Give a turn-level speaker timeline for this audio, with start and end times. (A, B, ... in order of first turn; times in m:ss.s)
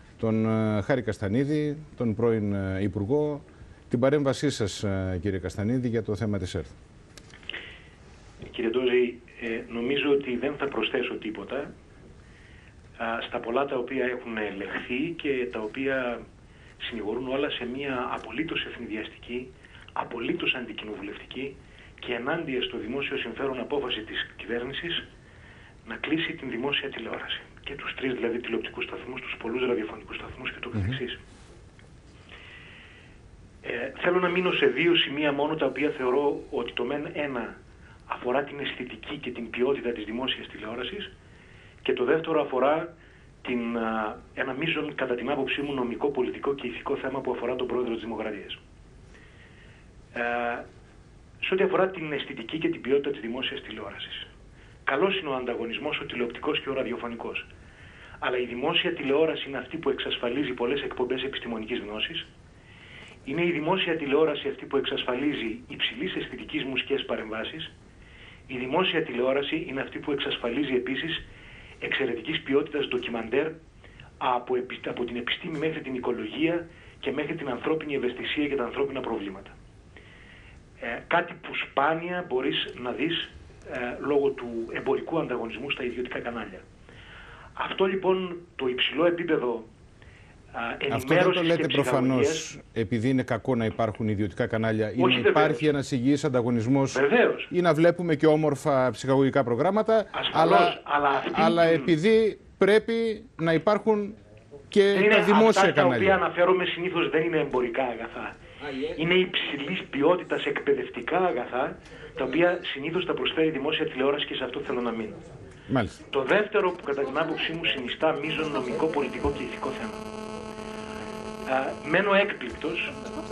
0:00.2-0:06.7 A
0:08.4-0:11.7 B
0:13.0-0:16.2 B
0:16.8-0:25.0 B
0:25.8-0:31.2 B
0:33.6-0:37.6 B
0:38.1-0:41.1 B
0:41.8-0:42.9 B
0:43.4-0:48.6 B
0:50.1-0:50.6 B
0:51.4-0:54.3 B
0:54.8-0:57.5 B
0:58.2-1:02.3 B
1:03.2-1:07.7 B
1:08.5-1:11.2 B
1:11.8-1:13.6 B
1:14.2-1:19.5 B
1:20.8-1:26.6 B
1:27.6-1:29.7 B
1:30.5-1:32.5 B
1:30.9-1:44.2 A
1:35.0-1:35.7 B
1:36.9-1:37.5 B
1:40.1-1:41.9 B
1:44.7-1:46.2 A
1:44.9-1:55.2 B
1:55.7-1:56.0 A
1:56.1-2:00.0 B
2:01.4-2:02.9 B